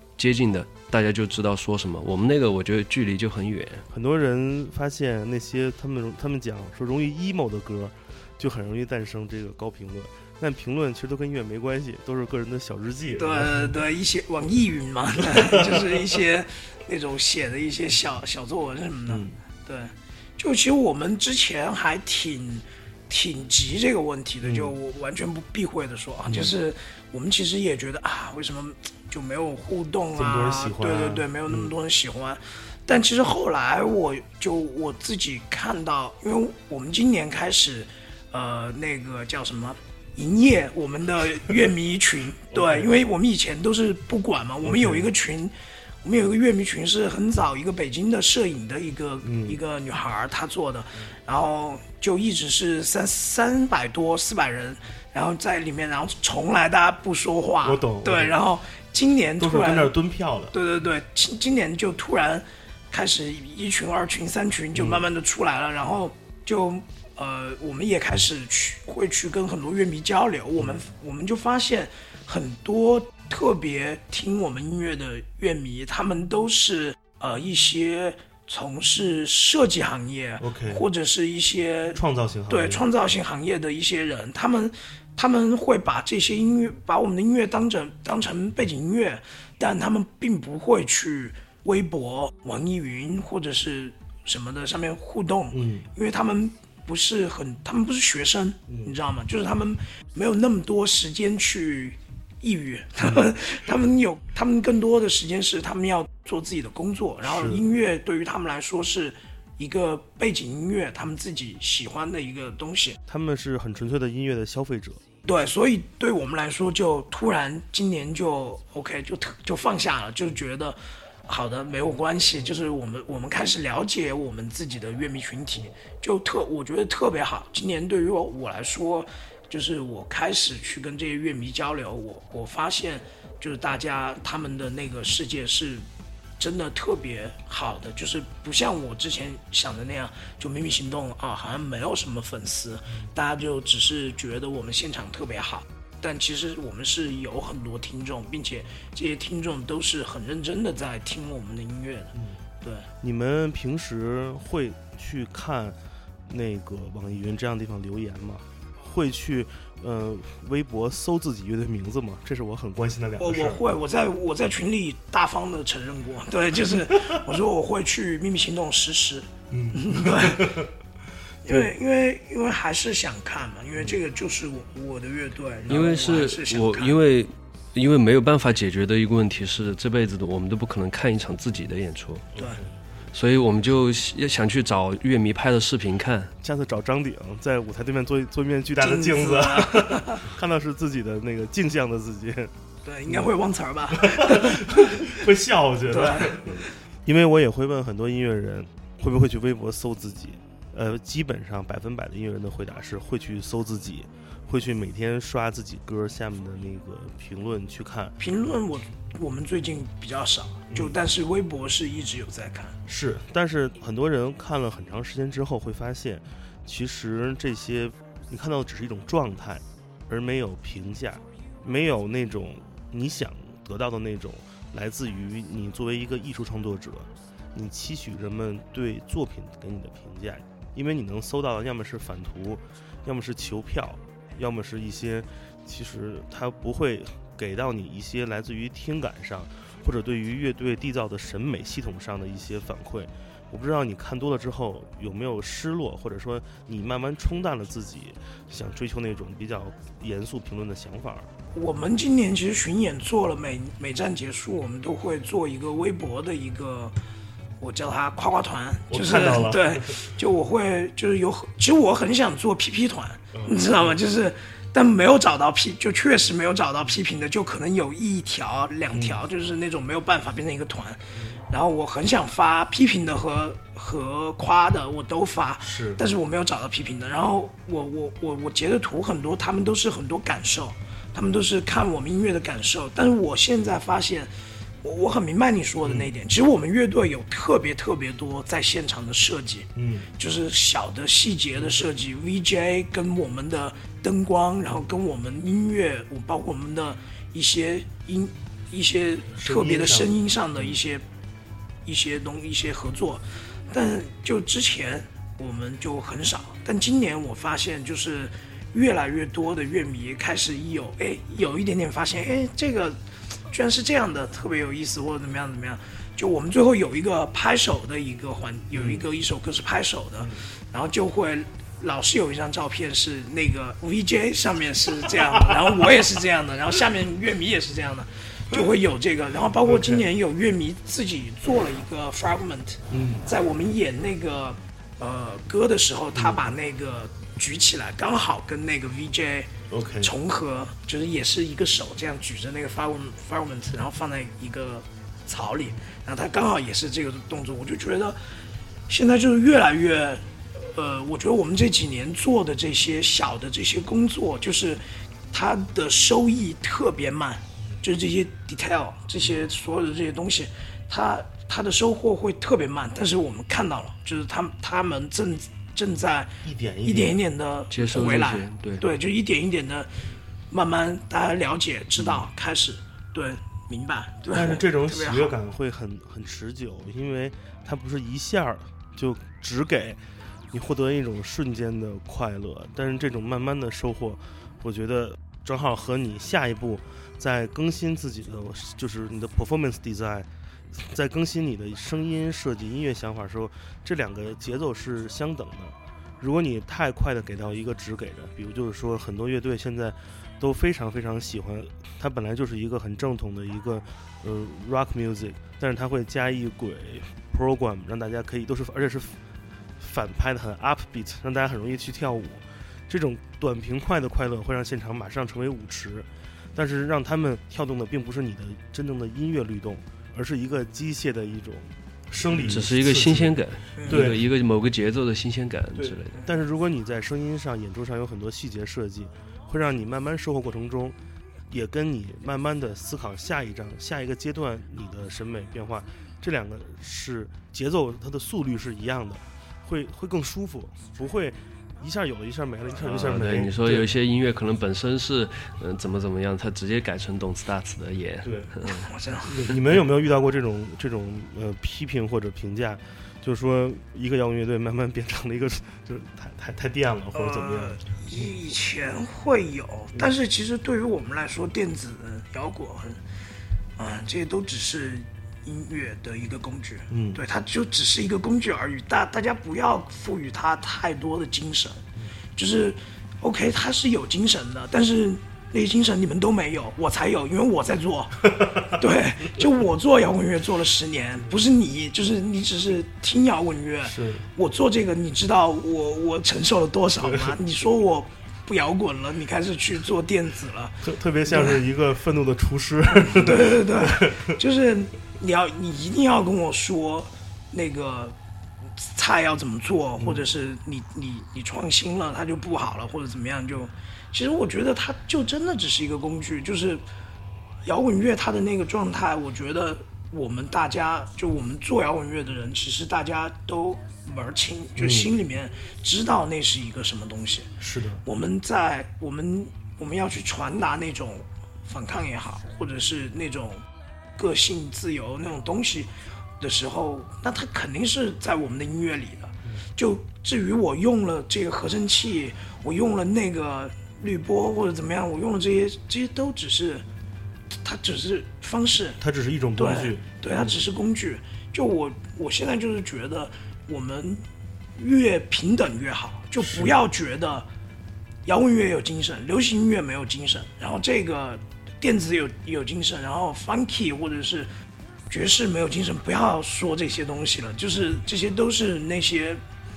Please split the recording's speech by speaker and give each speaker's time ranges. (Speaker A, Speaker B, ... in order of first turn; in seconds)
Speaker A: 0.2-3.8, 175.7-182.3, 183.1-186.3, 367.7-368.9, 422.4-426.2, 442.8-448.9
Speaker B: 3.9-13.7, 15.2-16.2, 19.1-19.4, 24.4-24.7, 26.2-26.5, 30.1-31.7, 42.5-42.9, 44.6-45.1, 49.2-49.6, 57.6-58.4, 59.4-60.5, 64.7-65.1, 70.6-70.8, 80.4-80.8, 81.9-82.8, 95.5-95.9, 98.7-98.9, 103.0-103.3, 107.2-107.6, 113.1-115.0, 153.0-163.6, 166.9-167.2, 169.5-170.7, 182.3-182.7, 186.4-192.5, 194.0-208.2, 210.7-210.9, 212.9-251.3, 258.9-259.9, 263.3-264.0, 268.9-269.2, 275.6-276.0, 285.8-286.1, 289.8-290.1, 299.3-300.8, 318.7-319.0, 325.2-325.8, 329.6-330.0, 332.9-333.3, 336.1-336.4, 339.7-340.1, 366.4-367.2, 372.0-372.3, 374.3-409.2, 409.8-424.2, 425.7-430.9, 431.5-443.9, 448.2-448.6, 449.2-458.3, 466.9-467.2, 483.8-484.3, 487.0-487.4, 490.8-494.3, 500.0-500.3, 514.8-515.1, 517.6-518.0, 539.0-540.6, 546.4-546.8
Speaker C: 13.2-59.9, 60.5-113.0, 115.2-135.9, 136.4-152.9, 163.2-170.6, 171.4-177.0, 188.8-190.2, 192.8-195.1, 195.9-196.7, 208.2-212.8, 251.5-256.9, 257.6-301.0, 301.8-348.2, 348.9-366.3, 366.8-375.4, 423.8-424.1, 448.6-449.5, 457.1-463.0, 463.8-471.8, 472.4-491.6, 493.2-498.1, 498.8-506.8, 507.6-517.5, 518.0-523.6, 524.1-536.8, 537.6-539.0, 539.6-544.2, 544.8-547.5, 548.2-554.5, 555.1-559.4